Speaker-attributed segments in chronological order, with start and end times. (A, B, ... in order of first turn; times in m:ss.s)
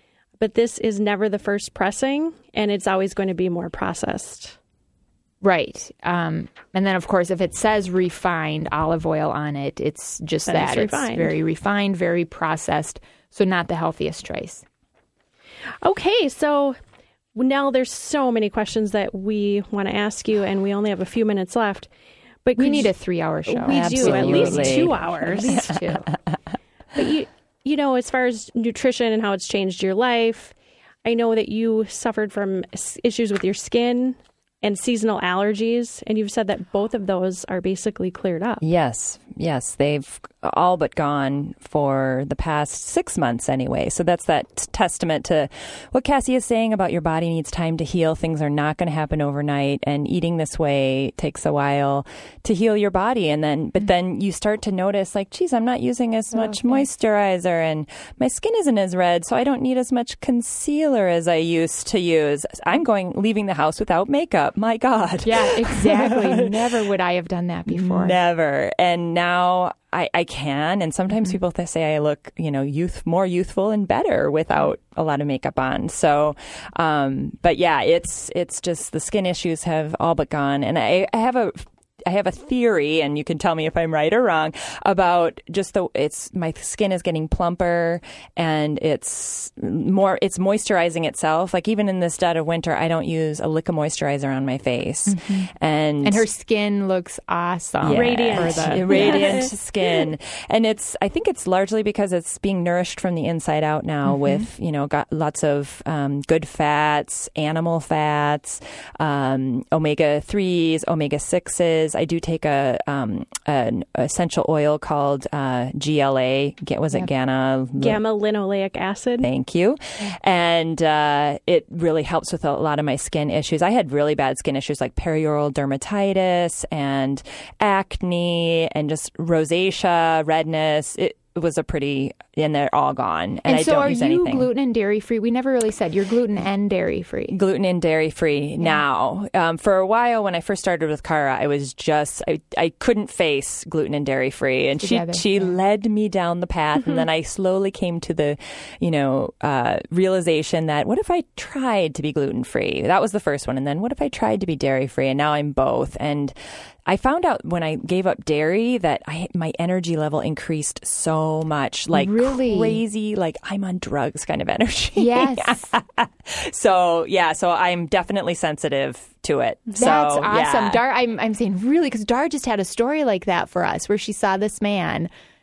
0:00.4-0:04.6 A
0:05.4-0:14.7 B
0:10.5-0:11.3 A
0:15.8-0:16.8 A
0:17.4-0:21.9 A
0:22.4-0:22.9 A
0:22.6-0:26.1 B
0:23.5-0:25.8 A
0:23.7-0:24.9 C
0:25.5-0:25.9 C
0:27.0-0:38.6 A
0:38.6-1:06.6 C
0:56.3-0:56.8 B
1:05.2-1:08.2 B
1:07.7-1:36.2 C
1:11.1-1:11.4 B
1:35.1-1:35.5 B
1:36.0-1:39.4 B
1:37.8-1:58.0 C
1:37.9-1:39.5 A
1:44.0-1:44.5 B
1:57.8-1:59.3 A
1:59.2-2:14.5 C
2:13.5-2:17.4 B
2:17.3-2:36.4 C
2:18.6-2:18.8 B
2:24.8-2:25.5 B
2:36.9-2:50.8 C
2:41.9-2:42.8 B
2:45.0-2:45.7 B
2:49.8-2:55.1 B